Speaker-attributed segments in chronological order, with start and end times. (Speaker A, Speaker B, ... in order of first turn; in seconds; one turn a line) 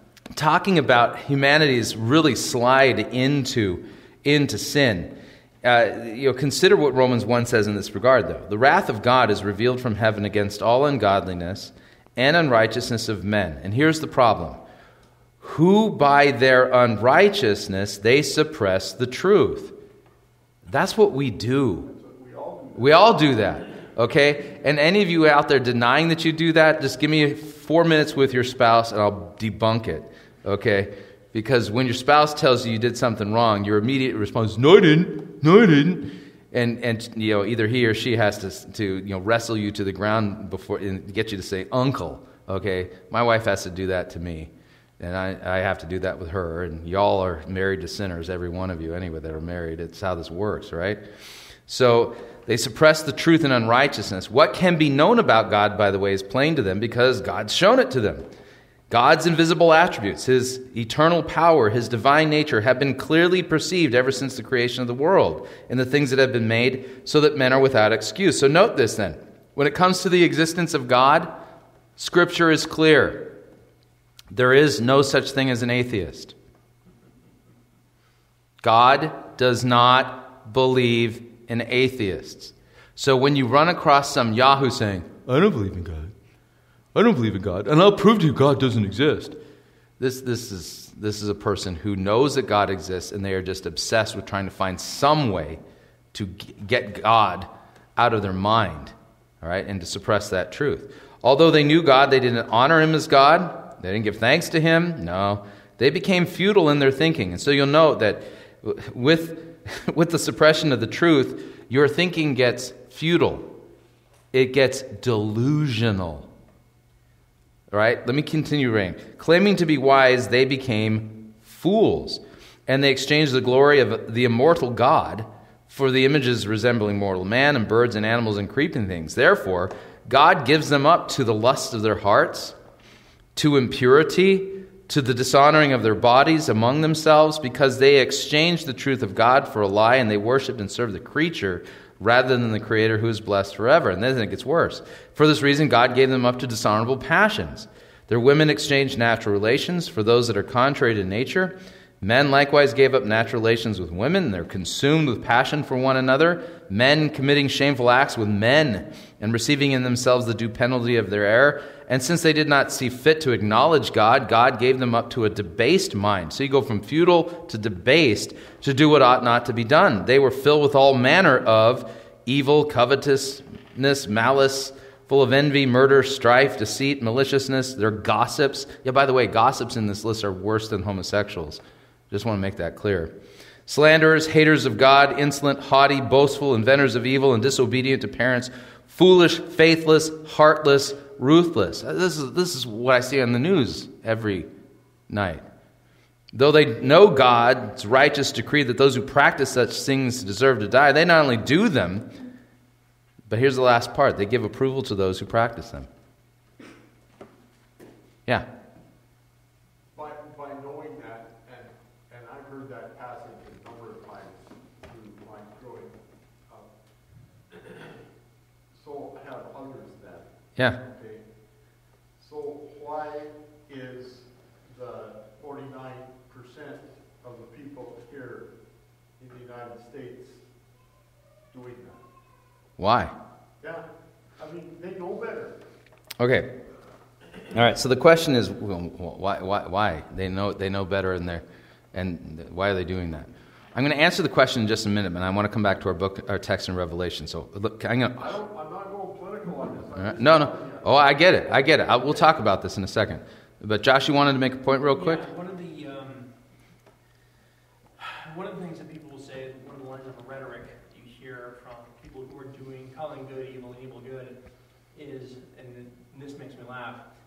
Speaker A: 0.3-14.6
Speaker A: 15.4-19.7
Speaker A: 20.6-21.9
Speaker B: 21.9-23.7
Speaker A: 22.7-51.0
Speaker A: 51.7-58.3
Speaker A: 58.9-71.3
Speaker A: 72.0-73.4
Speaker A: 74.3-76.3
Speaker A: 78.6-86.1
Speaker A: 86.9-89.4
Speaker A: 90.0-95.6
Speaker A: 96.1-113.5
Speaker A: 114.3-116.3
Speaker A: 117.7-132.6
Speaker A: 133.3-183.1
Speaker A: 183.7-194.5
Speaker A: 195.1-195.4
Speaker A: 196.3-202.1
Speaker A: 203.3-205.9
Speaker B: 209.9-216.7
Speaker B: 217.5-218.0
Speaker B: 218.7-221.3
Speaker B: 222.2-228.5
Speaker B: 229.2-230.4
Speaker B: 231.5-232.0
Speaker A: 232.8-233.1
Speaker B: 233.6-233.8
Speaker B: 234.4-235.6
Speaker A: 236.2-236.6
Speaker A: 237.5-248.3
Speaker B: 248.2-251.0
Speaker A: 249.9-255.2
Speaker C: 254.9-256.3
Speaker C: 258.0-264.4
Speaker C: 264.9-267.0